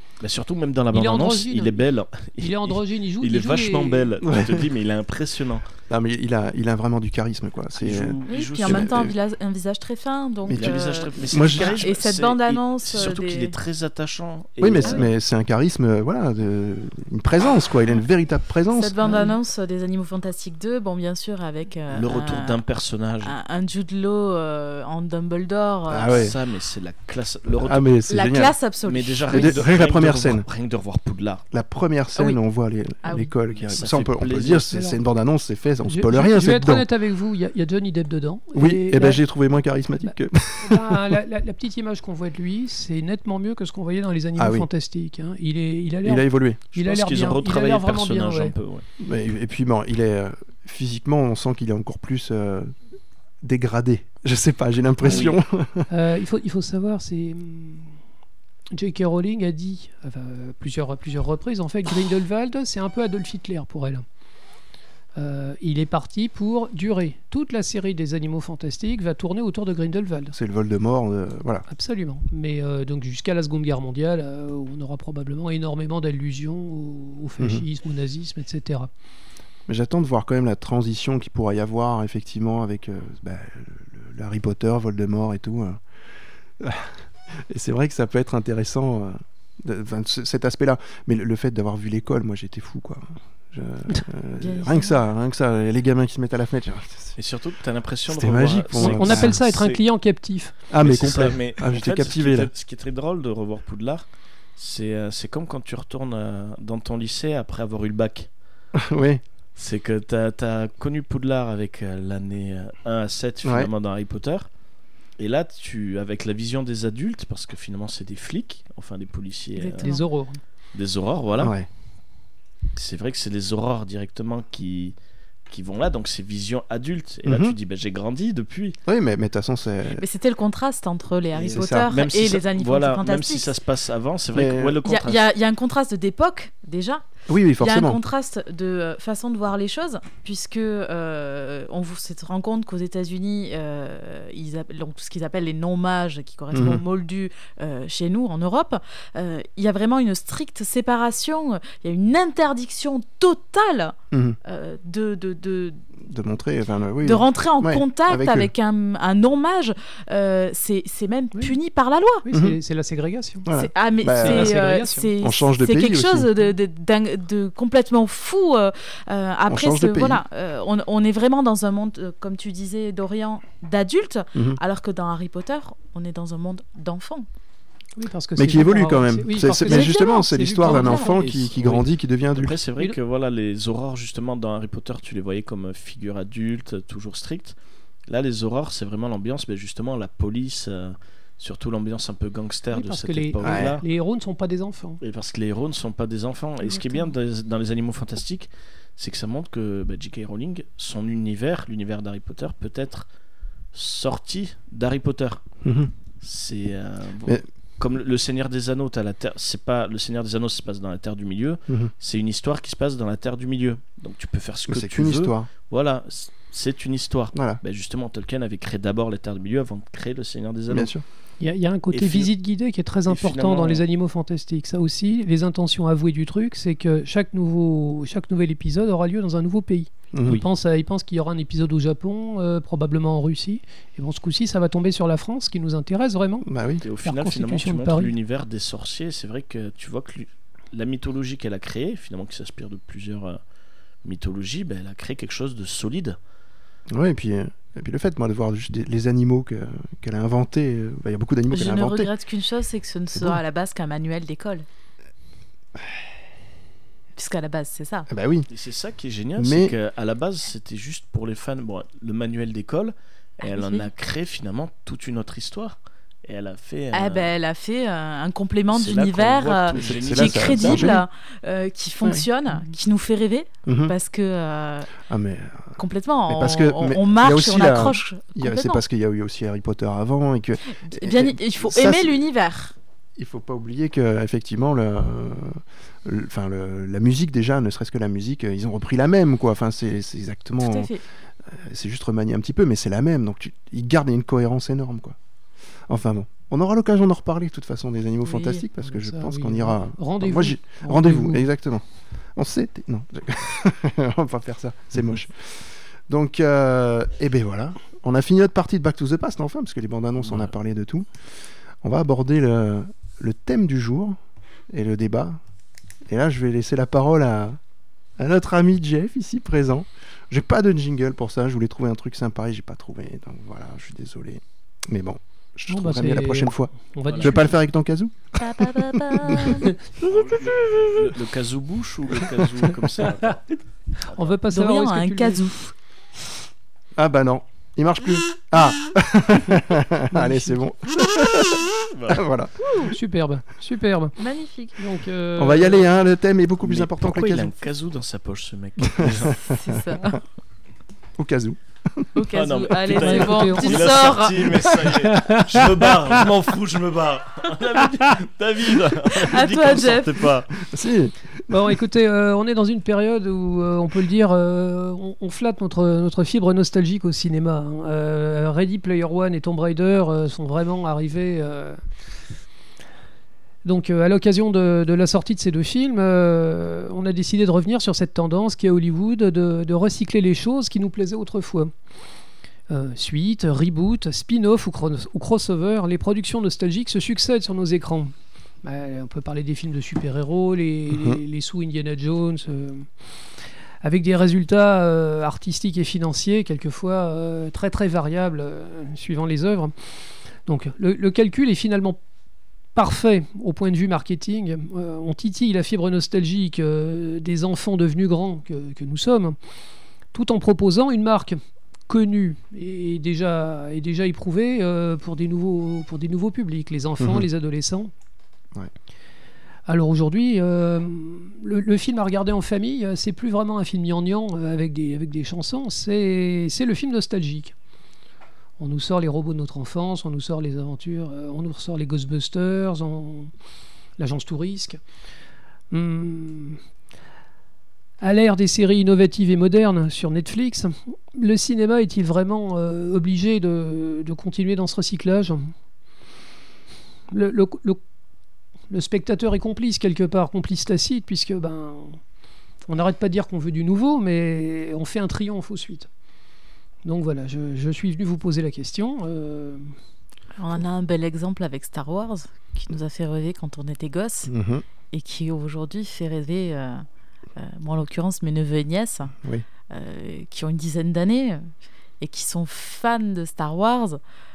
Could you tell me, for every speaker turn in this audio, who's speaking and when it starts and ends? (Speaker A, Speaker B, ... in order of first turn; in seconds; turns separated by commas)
Speaker A: 0.2-5.6, Speaker B: 0.9-1.8, Speaker B: 2.4-4.1, Speaker C: 4.2-4.7, Speaker C: 5.9-9.1, Speaker A: 7.8-9.1, Speaker D: 8.3-13.5, Speaker C: 10.5-11.8, Speaker A: 10.5-15.1, Speaker C: 14.6-19.2, Speaker D: 14.8-15.1, Speaker D: 18.7-22.6, Speaker A: 21.9-23.3, Speaker D: 23.2-26.3, Speaker C: 25.9-26.3, Speaker A: 26.0-27.9, Speaker C: 27.6-28.6, Speaker D: 28.1-29.6, Speaker A: 28.9-31.4, Speaker C: 29.3-30.4, Speaker C: 31.5-36.9, Speaker D: 33.0-33.3, Speaker A: 33.6-34.7, Speaker B: 34.7-35.0, Speaker B: 35.8-39.2, Speaker C: 38.5-41.1, Speaker B: 40.0-48.5, Speaker C: 44.4-44.7, Speaker C: 46.0-46.6, Speaker A: 46.7-48.9, Speaker C: 49.0-52.7, Speaker C: 53.4-55.9, Speaker A: 55.0-55.4, Speaker B: 55.9-57.9, Speaker B: 58.7-64.0, Speaker B: 65.2-70.3, Speaker C: 70.3-71.6, Speaker B: 71.7-78.9, Speaker C: 79.7-85.8, Speaker C: 86.6-97.2, Speaker D: 94.4-95.0, Speaker A: 97.2-99.8, Speaker C: 98.1-99.3, Speaker B: 98.8-100.5, Speaker C: 100.7-102.5, Speaker A: 100.8-104.0, Speaker A: 104.6-108.3, Speaker C: 108.7-109.2, Speaker A: 109.5-114.5, Speaker C: 113.4-113.7, Speaker A: 115.2-119.9, Speaker D: 119.5-120.0, Speaker B: 119.8-120.4, Speaker A: 120.7-121.5, Speaker C: 121.4-121.7, Speaker A: 122.7-124.9, Speaker A: 125.5-128.8, Speaker C: 127.2-127.5, Speaker C: 128.8-130.0, Speaker D: 129.9-133.5, Speaker C: 131.3-131.9, Speaker A: 131.5-135.2, Speaker C: 134.3-134.9, Speaker D: 134.8-137.1, Speaker C: 137.3-138.0, Speaker D: 137.6-155.8, Speaker C: 146.5-146.8, Speaker C: 154.1-154.4, Speaker C: 156.0-158.5, Speaker D: 157.0-162.2, Speaker B: 162.2-163.5, Speaker C: 162.3-162.6, Speaker C: 163.4-164.6, Speaker D: 163.5-177.3, Speaker B: 164.2-165.1, Speaker C: 165.2-166.3, Speaker C: 169.5-170.2, Speaker C: 174.3-174.6, Speaker B: 177.9-181.3, Speaker C: 178.3-182.6, Speaker D: 179.6-181.2, Speaker A: 181.3-187.5, Speaker A: 188.1-193.8, Speaker B: 192.7-195.0, Speaker C: 193.4-193.8, Speaker A: 195.0-203.1, Speaker B: 196.7-197.0, Speaker A: 203.7-205.4, Speaker C: 205.6-205.9, Speaker A: 206.2-220.9, Speaker C: 214.7-215.5, Speaker C: 217.3-217.6, Speaker C: 220.7-221.0, Speaker B: 221.4-236.5, Speaker A: 221.9-222.3, Speaker A: 223.1-223.8, Speaker C: 230.1-230.4, Speaker C: 236.4-236.8, Speaker A: 236.8-243.4, Speaker B: 237.0-238.1, Speaker A: 244.0-246.2, Speaker C: 246.9-252.1, Speaker D: 251.5-254.7, Speaker C: 253.1-253.4, Speaker D: 257.1-258.1, Speaker C: 258.1-258.5, Speaker A: 258.5-267.3, Speaker C: 259.4-259.7, Speaker D: 263.4-263.9, Speaker D: 266.9-274.9, Speaker A: 268.7-271.0, Speaker C: 269.8-271.0, Speaker C: 272.0-272.3, Speaker C: 273.6-273.9, Speaker C: 275.0-282.2, Speaker D: 275.8-278.8, Speaker D: 280.8-282.7, Speaker C: 283.2-290.9, Speaker D: 290.6-291.0, Speaker C: 291.4-295.1, Speaker C: 295.9-301.8, Speaker D: 298.2-298.6, Speaker B: 298.8-301.5, Speaker C: 302.3-311.1, Speaker A: 310.2-310.5, Speaker C: 311.8-314.2, Speaker C: 314.7-315.4, Speaker C: 316.1-317.6, Speaker C: 318.2-328.1, Speaker B: 325.7-327.6, Speaker A: 327.1-327.3, Speaker D: 328.4-329.7, Speaker B: 329.1-331.0, Speaker C: 329.1-329.6, Speaker A: 330.0-334.3, Speaker B: 334.0-335.5, Speaker D: 334.5-335.7, Speaker C: 337.0-342.5, Speaker B: 340.1-340.6, Speaker A: 341.9-342.2, Speaker D: 342.6-342.9, Speaker B: 342.8-344.2, Speaker D: 344.2-344.8, Speaker B: 344.8-345.9, Speaker C: 345.4-347.6, Speaker A: 346.6-349.5, Speaker C: 348.8-350.1, Speaker D: 349.5-350.2, Speaker C: 351.2-352.1, Speaker D: 352.1-354.7, Speaker A: 352.3-360.5, Speaker B: 352.9-354.1, Speaker B: 355.0-355.9, Speaker D: 359.1-360.3, Speaker C: 360.6-361.7, Speaker B: 361.5-371.8, Speaker B: 373.6-381.7, Speaker B: 382.7-388.1, Speaker B: 388.6-392.9, Speaker C: 390.9-391.2, Speaker B: 393.8-402.0, Speaker B: 402.7-409.4, Speaker B: 410.1-417.9, Speaker C: 417.0-417.3, Speaker B: 419.6-427.5, Speaker B: 428.6-433.3, Speaker B: 434.0-434.8, Speaker B: 435.7-436.6, Speaker B: 438.0-445.5, Speaker B: 447.1-447.8, Speaker B: 448.7-452.0, Speaker B: 452.7-455.9, Speaker B: 456.8-459.7, Speaker D: 460.4-464.3, Speaker C: 464.3-464.6, Speaker D: 464.9-466.8, Speaker D: 467.4-469.1, Speaker D: 469.7-474.0